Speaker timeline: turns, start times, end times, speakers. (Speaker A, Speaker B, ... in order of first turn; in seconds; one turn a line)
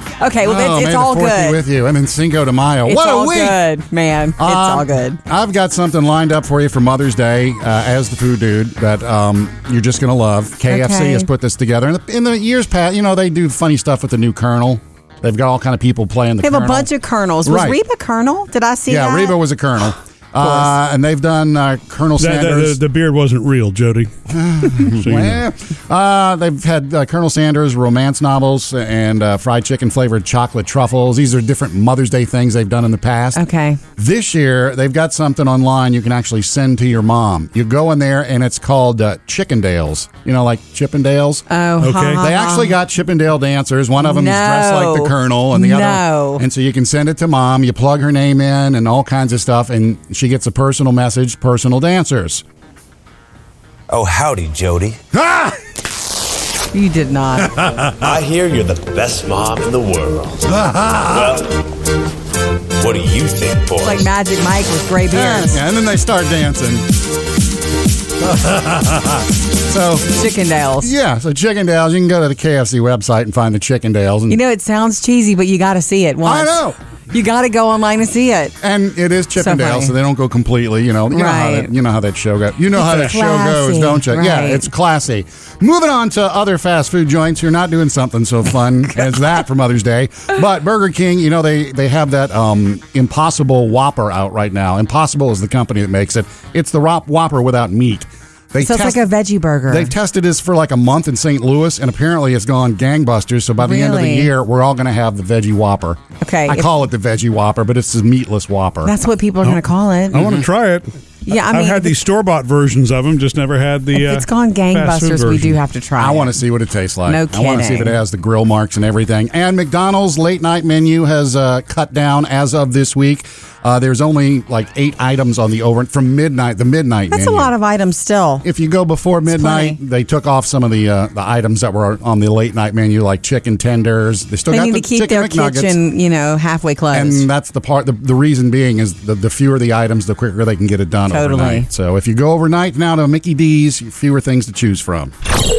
Speaker A: 0.2-1.6
Speaker B: 0.4-3.6
Speaker A: 2.9-5.2
Speaker B: 4.4-16.9
Speaker A: 10.7-11.3
Speaker A: 16.4-19.4
Speaker B: 17.4-17.8
Speaker B: 18.9-22.8
Speaker A: 20.4-20.7
Speaker C: 22.2-24.1
Speaker B: 24.3-33.4
Speaker C: 24.7-25.4
Speaker A: 33.3-33.8
Speaker B: 34.0-41.4
Speaker A: 41.5-42.8
Speaker C: 41.8-42.2
Speaker B: 42.2-52.4
Speaker A: 44.0-46.4
Speaker D: 53.9-55.0
Speaker B: 55.1-55.6
Speaker A: 56.7-57.5
Speaker B: 57.4-58.1
Speaker D: 58.0-60.5
Speaker B: 60.5-61.5
Speaker D: 61.1-61.6
Speaker D: 62.8-64.1
Speaker A: 63.8-65.6
Speaker B: 65.1-66.9
Speaker B: 68.2-70.2
Speaker A: 70.1-70.9
Speaker B: 70.8-74.4
Speaker A: 74.3-76.6
Speaker B: 76.2-76.8
Speaker A: 77.1-78.5
Speaker B: 78.6-99.0
Speaker A: 79.4-79.9
Speaker A: 81.1-81.7
Speaker A: 82.8-84.7
Speaker A: 98.6-99.9
Speaker B: 99.7-108.9
Speaker A: 103.6-104.3
Speaker A: 106.2-106.7
Speaker A: 108.8-110.4
Speaker C: 109.4-115.6
Speaker A: 111.2-112.0
Speaker A: 113.9-116.4
Speaker B: 116.0-127.5
Speaker A: 117.1-118.0
Speaker A: 127.1-128.4
Speaker B: 128.4-135.8
Speaker A: 129.3-129.8
Speaker A: 134.5-137.3
Speaker B: 136.9-145.1
Speaker A: 141.1-141.7